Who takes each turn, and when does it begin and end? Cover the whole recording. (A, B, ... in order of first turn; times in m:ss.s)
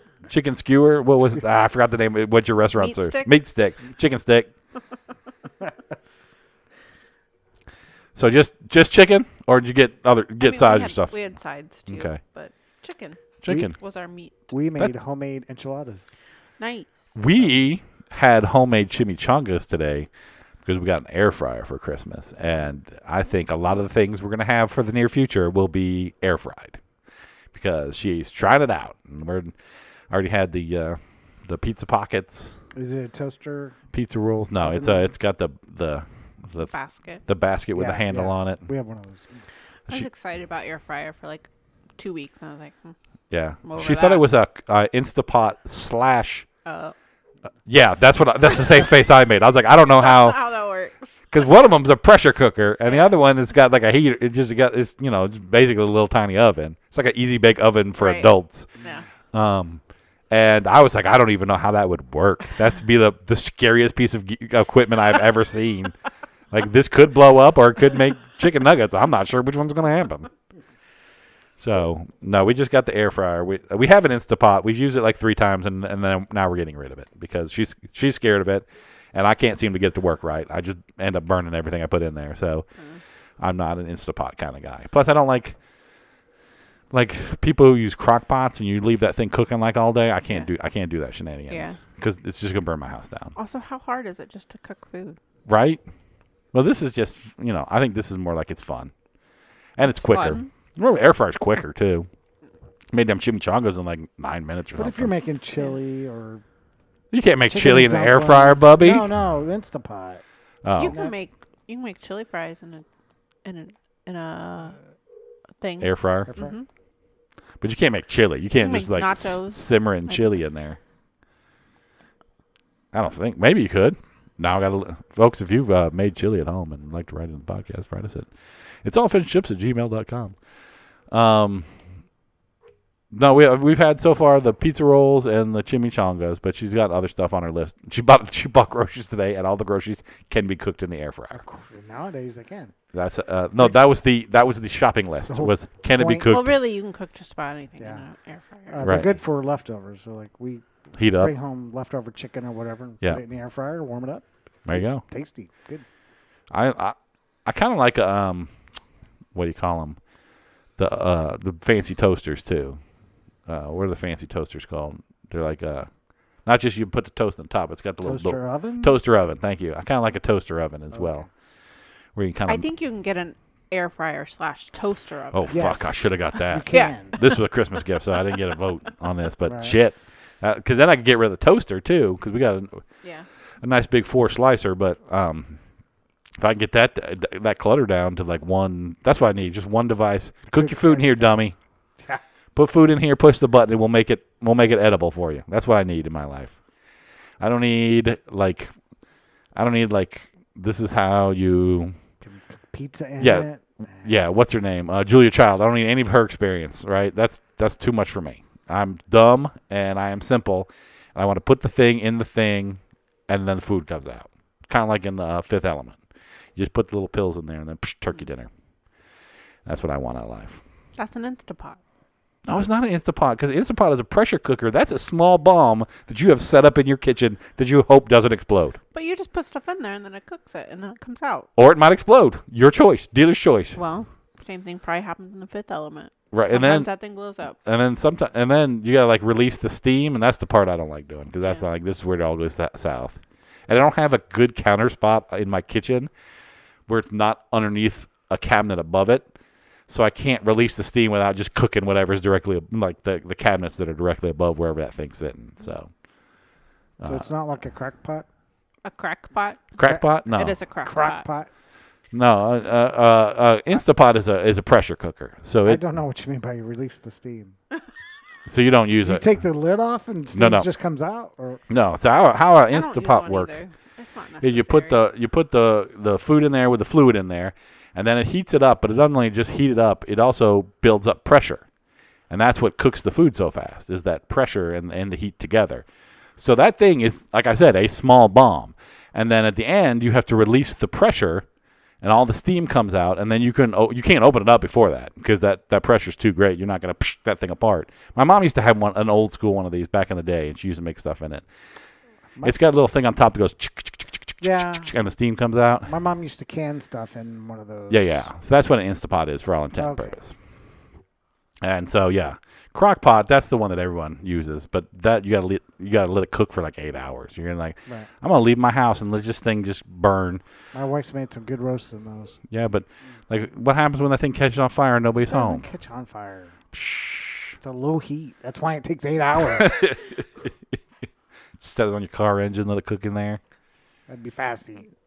0:00.3-0:04.5 A
0:02.8-0:03.5 B
0:08.2-0:11.2 A
0:10.4-0:14.5 B
0:11.9-0:12.2 A
0:13.4-0:13.7 A
0:14.5-0:16.0 C
0:16.6-0:17.2 B
0:17.2-0:20.1 A
0:20.6-0:26.8 A
0:27.5-0:29.6 A
0:30.1-0:32.6 A
0:32.7-0:33.8 C
0:33.9-0:36.7 A
0:34.6-0:35.1 C
0:36.6-0:37.2 B
0:37.3-0:38.7 A
0:37.8-0:39.3 C
0:39.9-0:43.0 B
0:43.3-0:46.5 A
0:43.6-0:44.3 B
0:46.6-0:47.0 B
0:47.7-0:50.4 A
0:49.9-0:51.5 B
0:51.3-0:58.7 A
0:52.9-0:53.2 B
0:58.0-0:59.0 B
0:59.3-1:06.0 A
1:06.5-1:10.3 A
1:11.6-1:22.7 A
1:23.4-1:25.6 A
1:26.9-1:33.3 A
1:31.5-1:31.8 B
1:33.4-1:35.2 B
1:35.5-1:35.8 A
1:36.5-1:38.9 A
1:39.8-1:42.1 A
1:39.8-1:40.5 B
1:42.9-1:45.1 A
1:44.8-1:46.4 C
1:47.1-1:49.1 A
1:47.5-1:50.2 C
1:50.6-1:51.0 A
1:50.8-1:52.9 B
1:50.8-1:51.1 C
1:53.4-1:54.8 B
1:55.6-1:56.7 B
1:55.8-1:56.3 A
1:56.3-1:56.6 C
1:57.6-2:00.8 A
1:58.6-2:00.3 B
2:02.9-2:08.3 A
2:08.8-2:10.4 A
2:11.1-2:11.7 A
2:13.1-2:21.4 A
2:21.4-2:22.7 C
2:22.9-2:26.6 A
2:25.3-2:26.3 C
2:26.2-2:28.8 B
2:27.8-2:28.0 C
2:28.7-2:35.8 C
2:28.8-2:29.1 A
2:31.0-2:31.3 A
2:34.7-2:35.0 A
2:36.5-2:38.5 A
2:39.4-2:40.0 A
2:40.8-2:42.8 A
2:43.5-2:45.9 A
2:46.4-2:51.3 A
2:48.0-2:49.0 C
2:50.9-2:51.3 C
2:52.2-2:52.7 A
2:52.5-2:55.8 B
2:55.3-3:02.8 A
2:55.5-2:57.2 C
2:56.7-2:57.4 B
2:59.4-2:59.8 C
3:03.6-3:05.6 A
3:06.4-3:11.6 A
3:10.5-3:11.4 C
3:12.6-3:16.6 A
3:17.4-3:18.7 A
3:19.6-3:22.0 A
3:22.2-3:24.4 C
3:23.2-3:23.5 A
3:24.0-3:36.0 A
3:36.6-3:38.5 A
3:39.6-3:40.6 A
3:41.0-3:41.8 B
3:42.5-3:48.8 A
3:48.9-3:51.5 B
3:51.6-3:53.8 A
3:53.8-3:57.6 B
3:56.3-3:56.9 A
3:57.6-4:06.1 A
4:06.9-4:09.3 A
4:09.9-4:15.9 A
4:17.0-4:17.3 A
4:17.0-4:18.3 C
4:18.8-4:21.3 B
4:19.8-4:20.6 A
4:20.8-4:21.5 C
4:22.1-4:25.8 A
4:25.6-4:27.6 C
4:28.5-4:29.3 A
4:29.0-4:31.6 C
4:30.3-4:30.7 A
4:31.7-4:33.6 A
4:32.7-4:35.0 B
4:34.4-4:41.6 A
4:42.3-4:45.8 A
4:46.4-4:51.5 A
4:52.0-5:01.4 A
5:02.4-5:05.9 A
5:04.4-5:04.9 C
5:05.9-5:08.3 C
5:07.9-5:10.3 A
5:09.8-5:10.2 C
5:11.6-5:20.4 A
5:20.7-5:22.4 C
5:22.5-5:25.6 A
5:25.3-5:26.6 C
5:26.7-5:27.6 A
5:27.6-5:29.9 C
5:29.5-5:30.8 A
5:31.6-5:33.4 A
5:34.1-5:34.9 C